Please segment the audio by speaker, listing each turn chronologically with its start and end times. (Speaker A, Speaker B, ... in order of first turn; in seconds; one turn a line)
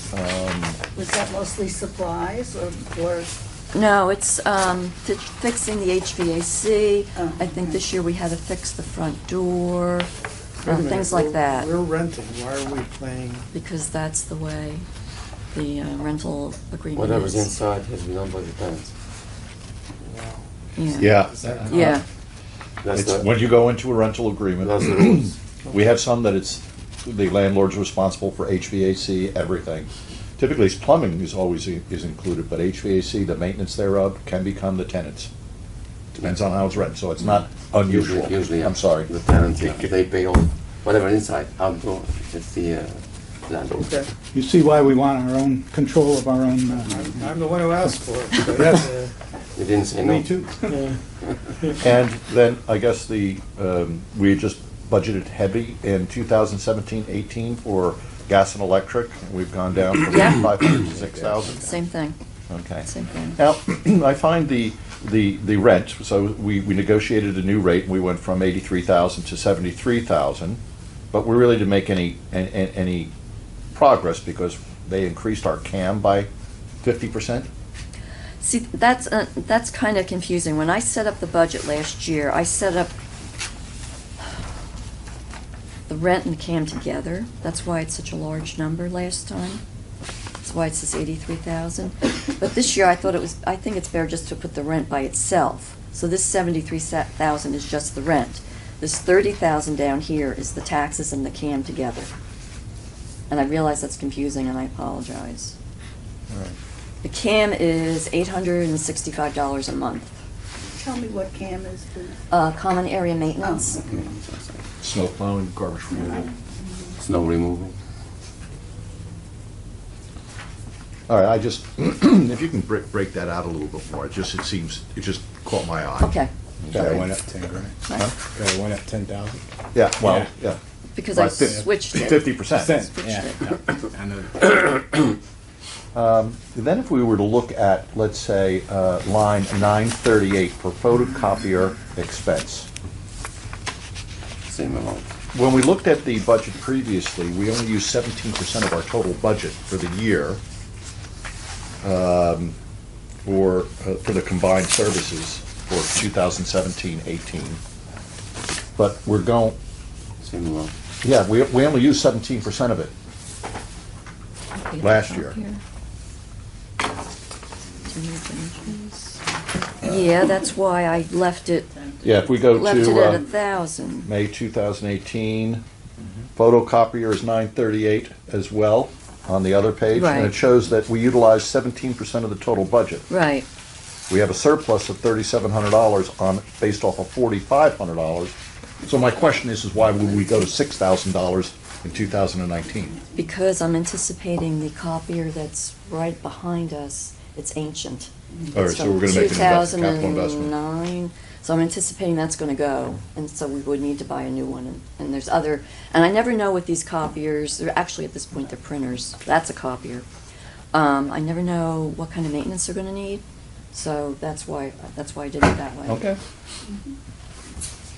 Speaker A: 0.1-0.8
Speaker B: 0.9-3.4
Speaker C: 3.7-10.1
Speaker B: 7.2-7.8
Speaker D: 10.6-13.5
Speaker C: 10.6-11.7
Speaker C: 13.5-14.8
Speaker C: 15.5-17.6
Speaker E: 16.9-18.9
Speaker D: 20.0-20.4
Speaker C: 20.8-22.0
Speaker A: 21.0-22.0
Speaker D: 21.3-21.9
Speaker E: 22.8-23.3
Speaker A: 22.9-35.3
Speaker E: 24.6-25.3
Speaker A: 36.1-39.1
Speaker E: 37.9-44.0
Speaker F: 44.3-47.3
Speaker D: 46.8-49.1
Speaker F: 48.5-48.9
Speaker E: 49.5-50.5
Speaker D: 50.0-51.0
Speaker A: 51.8-61.7
Speaker C: 60.1-60.4
Speaker C: 61.6-62.2
Speaker A: 62.5-70.6
Speaker C: 62.8-63.4
Speaker A: 71.1-73.1
Speaker A: 73.7-76.3
Speaker A: 76.8-77.5
Speaker C: 78.4-82.9
Speaker C: 85.9-89.6
Speaker C: 90.4-102.1
Speaker C: 103.3-105.5
Speaker C: 107.0-110.1
Speaker B: 110.7-112.2
Speaker C: 112.3-113.8
Speaker B: 113.4-113.8
Speaker E: 113.8-114.6
Speaker A: 114.8-116.3
Speaker E: 117.0-117.8
Speaker A: 121.1-126.1
Speaker C: 126.0-126.3
Speaker G: 126.7-129.4
Speaker A: 126.7-127.1
Speaker A: 129.7-130.6
Speaker G: 130.0-130.3
Speaker C: 130.9-133.5
Speaker A: 131.1-132.8
Speaker G: 131.4-135.1
Speaker A: 135.9-142.7
Speaker E: 144.5-145.1
Speaker A: 145.3-150.4
Speaker A: 151.8-152.6
Speaker A: 153.2-157.6
Speaker A: 158.8-159.6
Speaker E: 160.2-160.7
Speaker A: 161.0-162.9
Speaker C: 164.5-165.6
Speaker A: 164.8-165.4
Speaker C: 167.9-169.2
Speaker C: 169.8-174.1
Speaker A: 172.0-173.2
Speaker A: 174.0-175.6
Speaker A: 176.3-183.1
Speaker C: 179.9-180.3
Speaker C: 183.1-183.4
Speaker A: 184.1-193.0
Speaker C: 193.1-210.1
Speaker A: 198.5-200.5
Speaker C: 210.7-216.0
Speaker A: 215.9-216.2